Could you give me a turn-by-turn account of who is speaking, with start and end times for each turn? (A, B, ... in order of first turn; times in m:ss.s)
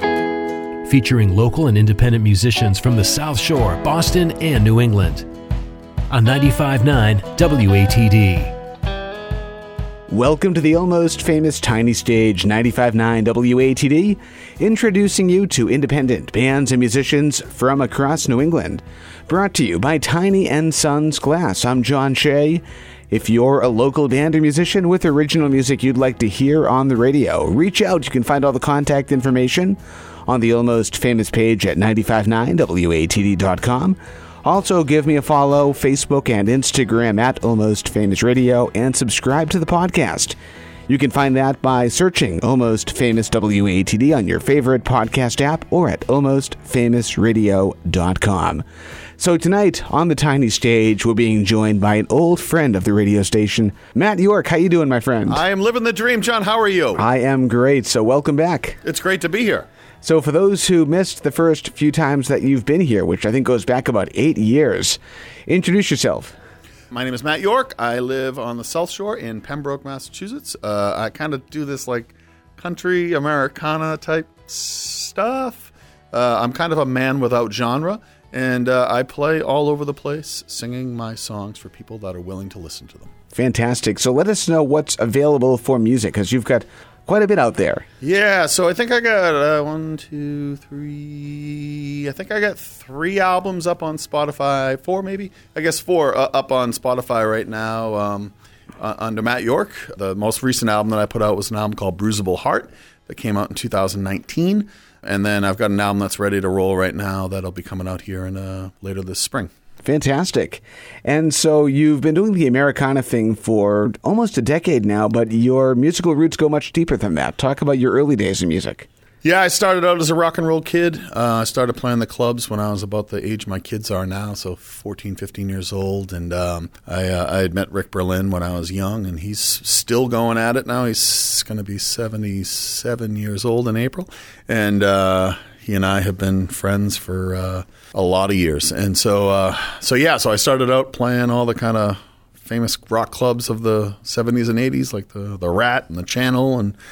0:00.8-0:05.3 A
0:06.1-0:08.5 A
0:10.1-0:40.4 B
0:40.9-0:48.6 B
0:49.2-0:55.4 B
0:55.3-0:57.0 C
0:57.0-0:58.8 B
0:58.8-0:59.7 C
1:00.0-1:06.4 B
1:06.9-1:23.1 C
1:23.3-1:27.9 B
1:28.0-1:49.5 C
1:49.8-1:58.9 B
1:59.2-2:26.8 C